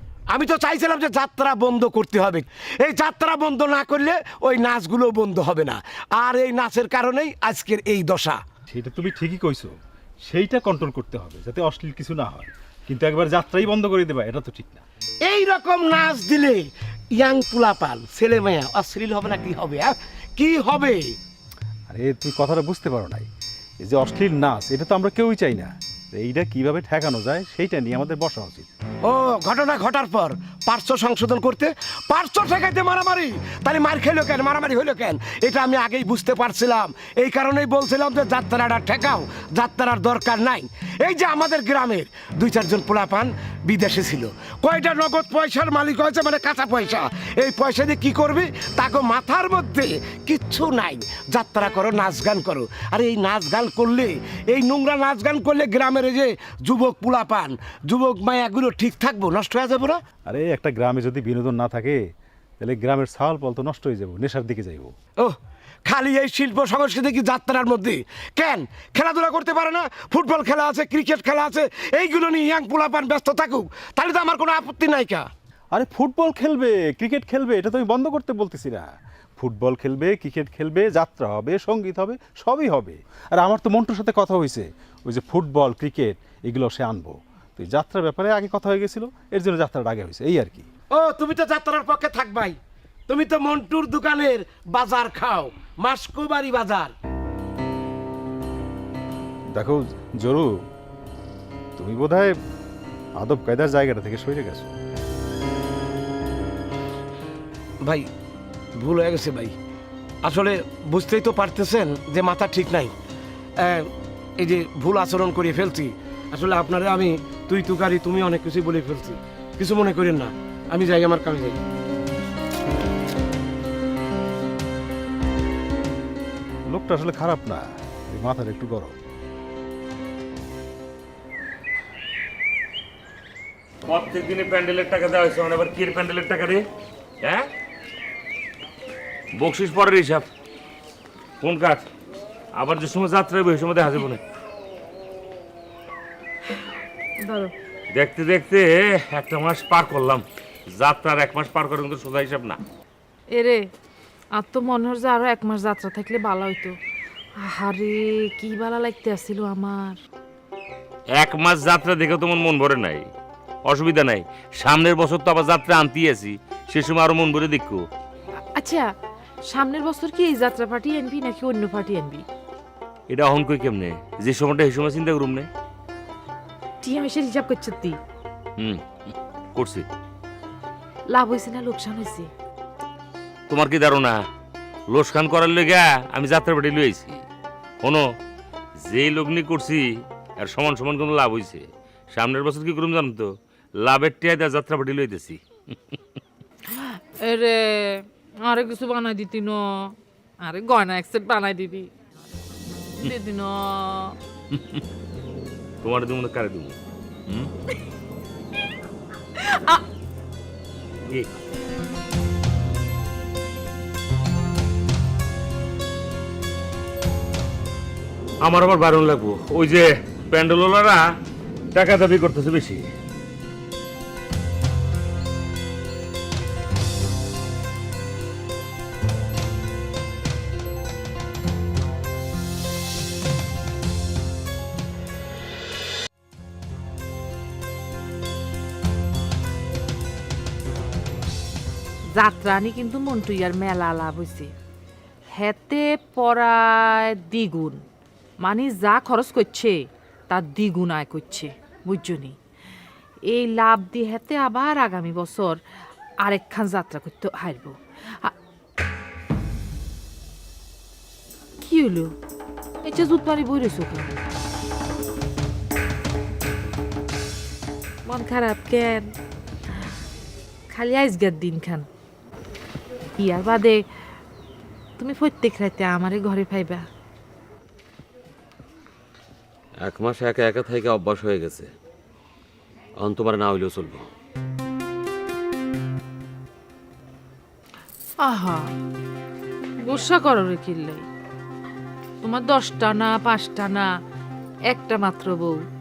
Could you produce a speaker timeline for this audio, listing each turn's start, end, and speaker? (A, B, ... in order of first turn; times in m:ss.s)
0:00.3-0:08.4 A
0:08.7-0:09.8 B
0:10.3-0:14.8 B
0:15.2-0:21.1 A
0:21.9-0:23.3 B
0:23.8-0:28.7 B
0:29.0-1:00.0 A
1:00.3-1:02.0 B
1:02.6-1:04.9 B
1:05.2-1:15.3 A
1:15.7-1:30.7 B
1:30.9-1:32.6 A
1:33.1-1:36.9 A
1:39.5-1:40.7 B
1:41.8-1:42.4 B
1:43.2-1:44.7 B
1:47.8-1:48.1 A
1:48.8-1:49.5 A
1:50.2-1:52.9 A
1:53.6-2:01.6 A
2:06.7-2:09.0 B
2:13.8-2:16.7 C
2:17.2-2:17.5 C
2:19.3-2:20.2 C
2:21.4-2:21.8 C
2:22.5-2:24.2 C
2:27.2-2:27.5 D
2:27.9-2:32.6 C
2:33.3-2:33.7 D
2:34.3-2:36.8 D
2:37.4-2:40.0 D
2:41.1-2:43.1 C
2:43.7-2:47.8 C
2:48.5-2:48.9 D
2:49.4-2:52.2 D
2:53.1-2:55.5 C
2:56.8-2:58.0 D
2:59.5-2:59.8 C
3:01.1-3:02.3 D
3:03.5-3:04.2 C
3:04.9-3:07.2 C
3:08.8-3:13.3 C
3:13.8-3:15.4 C
3:16.7-3:21.9 D
3:23.0-3:24.2 D
3:25.8-3:26.8 C
3:29.4-3:29.8 D
3:38.4-3:41.0 C
3:41.7-3:42.9 C
4:02.1-4:04.5 D
4:05.3-4:07.8 D
4:08.4-4:12.4 D
4:13.2-4:15.6 D
4:16.2-4:18.3 D
4:21.6-4:22.2 D
4:22.8-4:24.2 D
4:28.0-4:29.1 D
4:30.7-4:31.9 D
4:33.2-4:33.8 D
4:35.0-4:36.9 D
4:39.8-4:41.7 E
4:43.0-4:44.1 E
4:48.2-4:48.7 D
4:49.8-4:51.1 D
4:52.2-4:53.9 D
4:54.7-4:55.6 D